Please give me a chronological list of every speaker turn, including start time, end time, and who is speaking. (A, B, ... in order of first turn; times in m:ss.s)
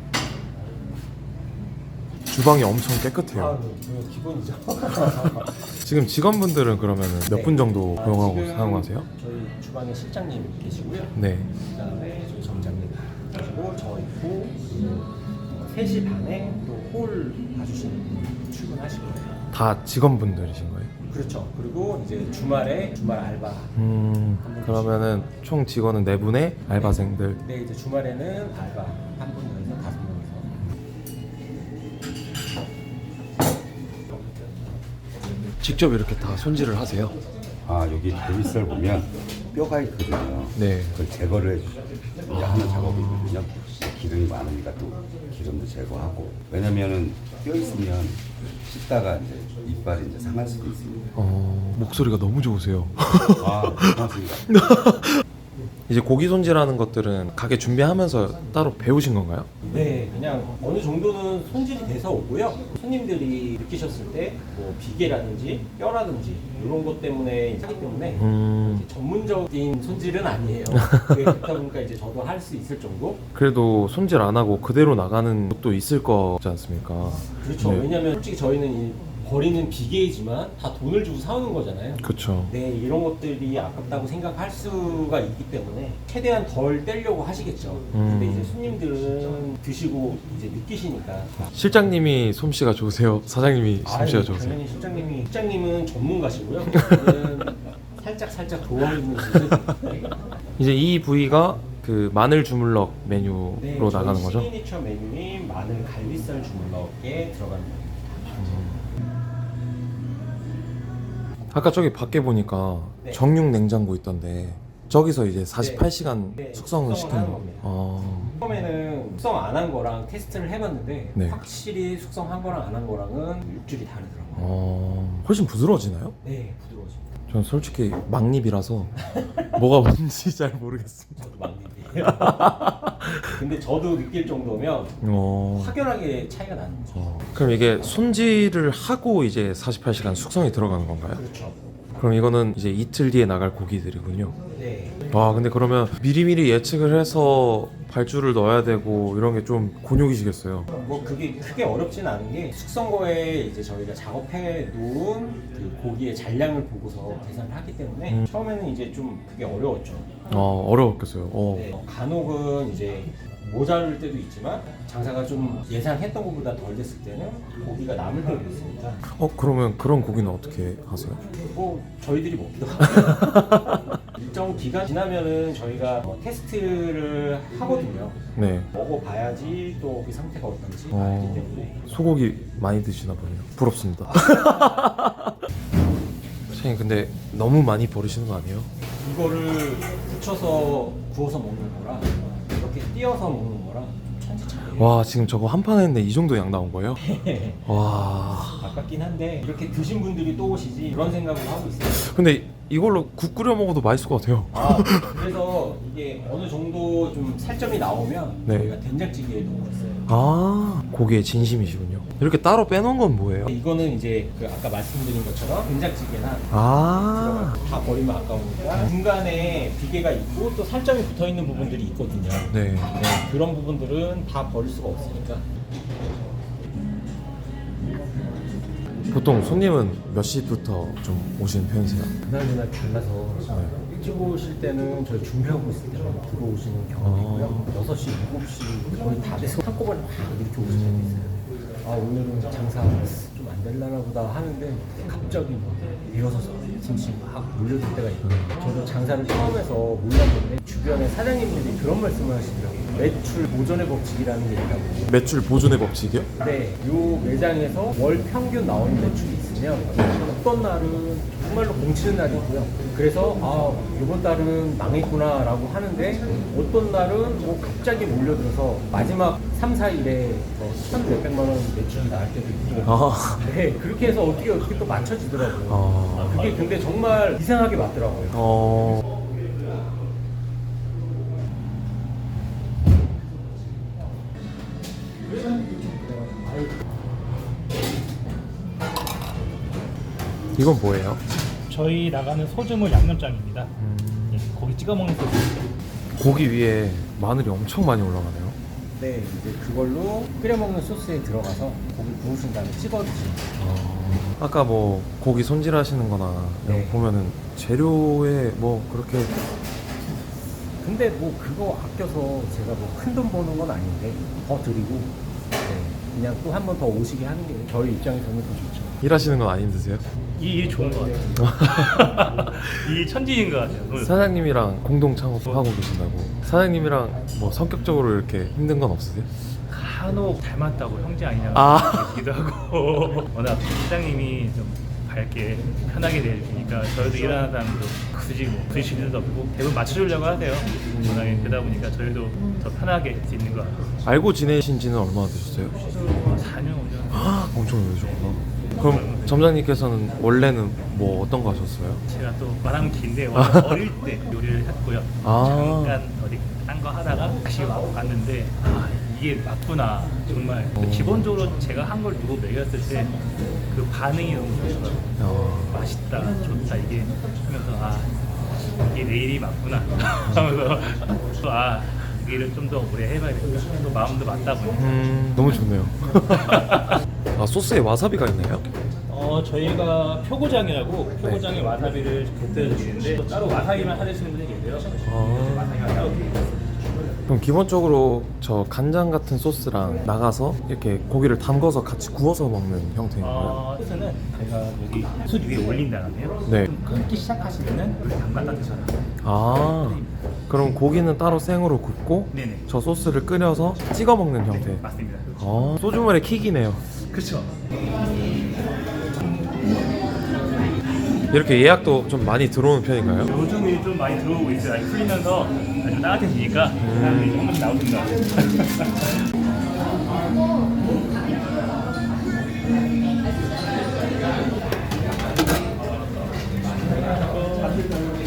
0:02.3-0:03.6 A
0:03.3-0:05.6 B
0:05.8-0:09.1 A
0:07.3-0:19.4 B
0:11.2-0:11.5 A
0:19.5-0:20.9 A
0:21.1-0:23.8 B
0:23.8-0:27.4 A
0:24.4-0:25.2 B
0:26.8-0:30.6 B
0:35.6-0:37.2 A
0:37.6-0:51.1 C
0:40.6-0:41.0 A
0:42.3-0:43.4 A
0:51.2-0:54.0 A
0:53.4-0:54.5 C
0:54.5-0:55.2 A
0:55.9-0:59.5 A
0:59.6-1:13.2 B
1:08.2-1:08.9 A
1:10.9-1:11.3 A
1:13.4-1:17.9 A
1:17.3-1:31.7 B
1:22.0-1:22.5 A
1:27.9-1:28.6 A
1:31.5-1:34.6 A
1:33.8-1:40.1 B
1:36.8-1:37.1 A
1:40.6-1:44.5 A
1:43.6-1:48.7 B
1:48.3-1:48.8 A
1:51.5-1:58.3 A
1:55.6-2:04.5 B
2:01.2-2:01.4 A
2:04.4-2:06.2 A
2:06.2-2:07.2 B
2:07.3-2:09.0 A
2:09.2-2:09.5 B
2:09.6-2:11.4 A
2:11.2-2:12.6 B
2:12.0-2:13.3 A
2:13.2-2:15.0 B
2:15.0-2:15.8 A
2:15.5-2:17.1 B
2:16.9-2:21.2 A
2:21.1-2:21.6 B
2:22.0-2:24.4 A
2:24.6-2:25.0 B
2:25.1-2:30.7 A
2:30.8-2:40.1 B
2:40.3-2:41.7 A
2:41.5-2:49.0 B
2:49.1-2:51.2 A
2:51.4-2:53.6 B
2:53.0-2:54.0 A
2:54.1-2:58.2 B
2:58.4-2:58.7 A
2:58.7-3:01.8 B
3:00.9-3:05.3 A
3:04.2-3:04.8 B
3:06.5-3:08.7 A
3:09.0-3:15.0 B
3:14.8-3:17.0 A
3:17.0-3:17.6 B
3:17.6-3:18.7 A
3:18.6-3:22.2 B
3:21.9-3:25.2 A
3:24.5-3:30.0 B
3:28.5-3:28.7 A
3:30.1-3:33.5 A
3:33.5-3:45.5 B
3:36.5-3:37.6 A
3:42.5-3:42.9 A
3:49.1-3:52.1 A
3:52.2-4:15.1 B
3:53.5-3:53.8 A
3:57.0-3:57.7 A
4:00.7-4:01.4 A
4:08.2-4:08.6 A
4:15.1-4:16.3 A
4:16.4-4:38.4 B
4:32.8-4:33.4 A
4:35.7-4:36.5 A
4:38.3-4:39.0 A
4:50.6-4:51.2 A
4:51.7-4:53.7 D
4:53.8-4:54.5 A
4:54.3-4:55.6 D
4:56.2-4:58.6 A
4:59.0-5:03.5 B
5:03.6-5:09.3 A
5:06.6-5:07.0 B
5:10.8-5:19.0 B
5:19.0-5:20.0 A
5:20.4-5:24.2 D
5:21.4-5:22.0 A
5:24.0-5:29.3 A
5:29.6-5:44.1 D
5:31.5-5:32.2 A
5:40.9-5:41.7 A
5:44.0-5:45.8 A
5:45.7-5:49.6 D
5:47.1-5:52.0 A
5:52.1-6:03.2 D
5:53.4-5:53.8 A
5:55.2-5:56.0 A
6:00.8-6:01.3 A
6:03.7-6:15.0 D
6:05.2-6:05.8 A
6:14.8-6:16.8 A
6:17.4-6:18.7 A
6:19.1-6:26.6 D
6:25.1-6:25.8 A
6:27.3-6:33.6 A
6:33.2-6:40.1 D
6:36.5-6:36.7 A
6:39.2-6:44.8 A
6:42.3-6:42.7 D
6:44.3-6:45.6 D
6:45.4-6:46.8 A
6:46.9-6:47.5 D
6:51.3-6:53.3 A
6:53.2-6:59.1 D
6:56.8-6:57.5 A
7:07.0-7:07.9 D